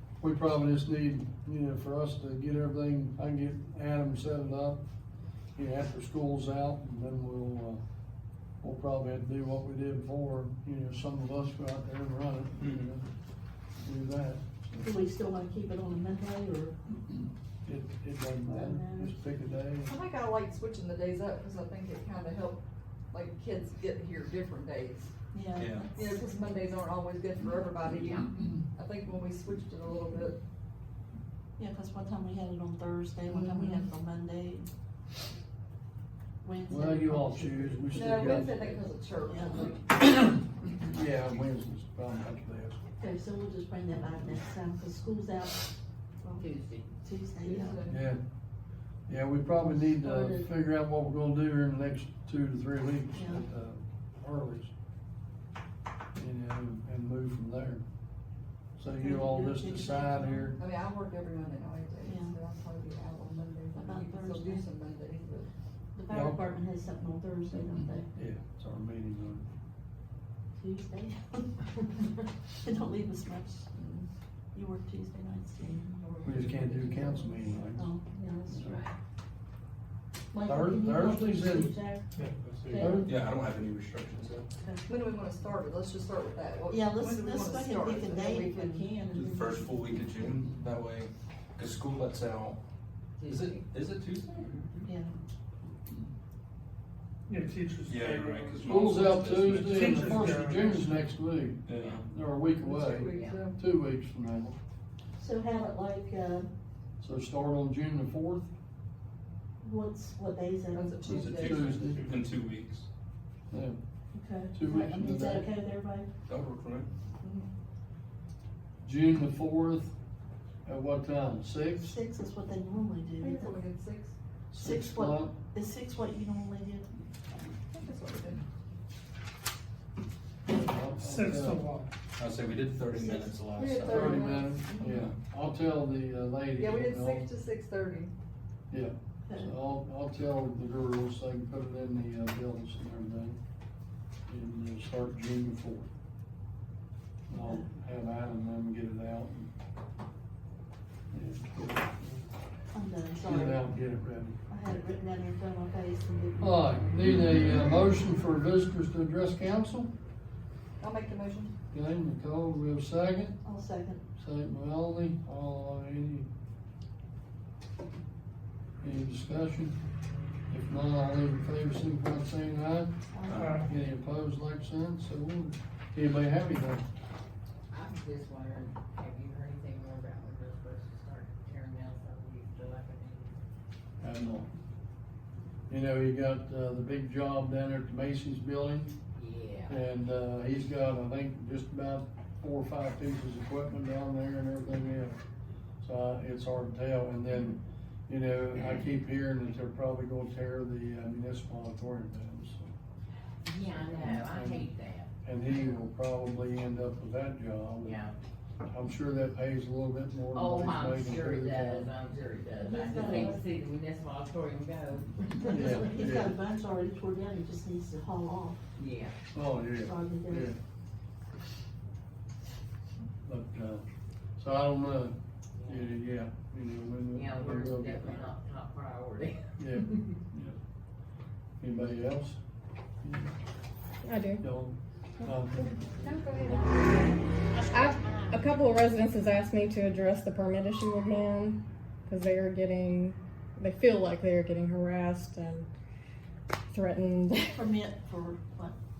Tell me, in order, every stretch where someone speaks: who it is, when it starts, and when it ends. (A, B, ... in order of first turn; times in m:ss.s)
0:00.2-0:04.8 A
0:05.5-0:07.8 A
0:08.6-0:13.0 A
0:12.6-0:12.9 B
0:13.8-0:14.4 A
0:14.7-0:16.8 C
0:17.6-0:19.9 A
0:18.4-0:19.2 C
0:19.8-0:22.6 D
0:23.1-0:25.1 D
0:25.3-0:26.1 C
0:25.5-0:25.9 B
0:25.9-0:30.4 D
0:31.6-0:34.7 C
0:36.4-0:38.5 C
0:36.7-0:38.8 A
0:37.9-0:39.8 D
0:39.3-0:39.7 C
0:40.8-0:42.8 A
0:43.0-0:45.7 C
0:46.4-0:46.9 E
0:47.0-0:47.8 C
0:47.4-0:48.0 D
0:47.9-0:48.2 A
0:49.1-0:54.7 A
0:49.6-0:50.5 C
0:53.1-0:53.4 C
0:56.1-0:57.8 A
0:58.8-1:00.6 A
0:59.0-1:00.6 C
1:00.6-1:05.5 D
1:02.0-1:02.4 C
1:03.7-1:04.6 C
1:05.9-1:08.1 C
1:06.1-1:06.5 A
1:08.1-1:09.4 A
1:10.6-1:11.7 C
1:12.6-1:13.7 C
1:13.7-1:14.1 D
1:14.5-1:17.1 C
1:16.0-1:17.4 D
1:16.2-1:17.9 A
1:17.7-1:18.8 C
1:18.5-1:18.8 A
1:20.3-1:22.0 C
1:20.4-1:21.7 A
1:22.2-1:24.5 B
1:22.6-1:23.1 C
1:22.7-1:23.2 A
1:24.6-1:24.8 C
1:24.9-1:28.9 D
1:26.7-1:29.7 C
1:29.1-1:32.6 B
1:33.2-1:33.6 E
1:33.2-1:34.6 B
1:34.8-1:35.2 C
1:37.3-1:41.1 F
1:37.8-1:40.2 B
1:38.6-1:44.6 A
1:41.6-1:42.1 B
1:42.6-1:43.6 D
1:45.2-1:46.5 C
1:47.0-1:48.5 A
1:49.6-1:51.0 C
1:50.7-1:51.8 D
1:51.0-1:52.9 B
1:51.2-1:52.1 A
1:51.8-1:52.2 F
1:53.5-1:53.8 A
1:54.1-1:56.1 C
1:54.5-1:55.5 A
1:56.3-1:56.9 B
1:57.2-1:57.5 D
1:58.8-1:59.9 A
2:00.6-2:01.9 A
2:01.8-2:03.6 C
2:03.2-2:04.1 D
2:04.5-2:05.4 A
2:04.6-2:06.9 C
2:07.7-2:08.4 D
2:10.5-2:11.6 A
2:11.0-2:11.9 F
2:12.2-2:14.1 B
2:13.5-2:14.8 D
2:13.8-2:14.4 C
2:13.9-2:17.3 A
2:16.6-2:18.1 D
2:18.7-2:23.4 A
2:24.3-2:25.9 A
2:27.3-2:29.5 A
2:27.3-2:27.6 C
2:31.1-2:32.2 A
2:32.7-2:33.7 C
2:33.2-2:34.4 A
2:34.5-2:36.9 C
2:36.4-2:39.9 A
2:40.8-2:41.5 D
2:41.7-2:43.4 A
2:43.4-2:44.0 C
2:44.2-2:46.3 A
2:48.8-2:49.8 A
2:50.5-2:56.8 A
2:53.1-2:53.6 C
2:53.3-2:53.6 B
2:53.3-2:53.7 F
2:57.7-3:03.4 E
3:04.0-3:04.5 A
3:05.7-3:08.9 A
3:09.1-3:09.8 E
3:09.7-3:15.2 A
3:15.8-3:22.7 A
3:23.4-3:25.1 E
3:23.7-3:28.0 A
3:27.8-3:28.1 E
3:28.6-3:32.0 A
3:30.3-3:35.7 E
3:32.6-3:33.4 C
3:33.0-3:33.3 A
3:35.4-3:38.6 C
3:35.5-3:36.3 A
3:38.8-3:39.1 E
3:39.3-3:40.6 A
3:39.8-3:40.5 C
3:43.2-3:43.8 A
3:44.4-3:45.1 A
3:45.6-3:45.9 E
3:45.6-3:48.3 A
3:47.1-3:49.5 E
3:49.6-3:50.6 A
3:51.6-3:52.4 A
3:53.0-3:53.3 A
3:54.0-3:54.4 G
3:54.4-3:55.8 A
3:56.0-3:56.8 E
3:57.7-4:05.7 G
3:57.8-3:58.6 E
4:06.7-4:07.5 G
4:07.4-4:08.7 C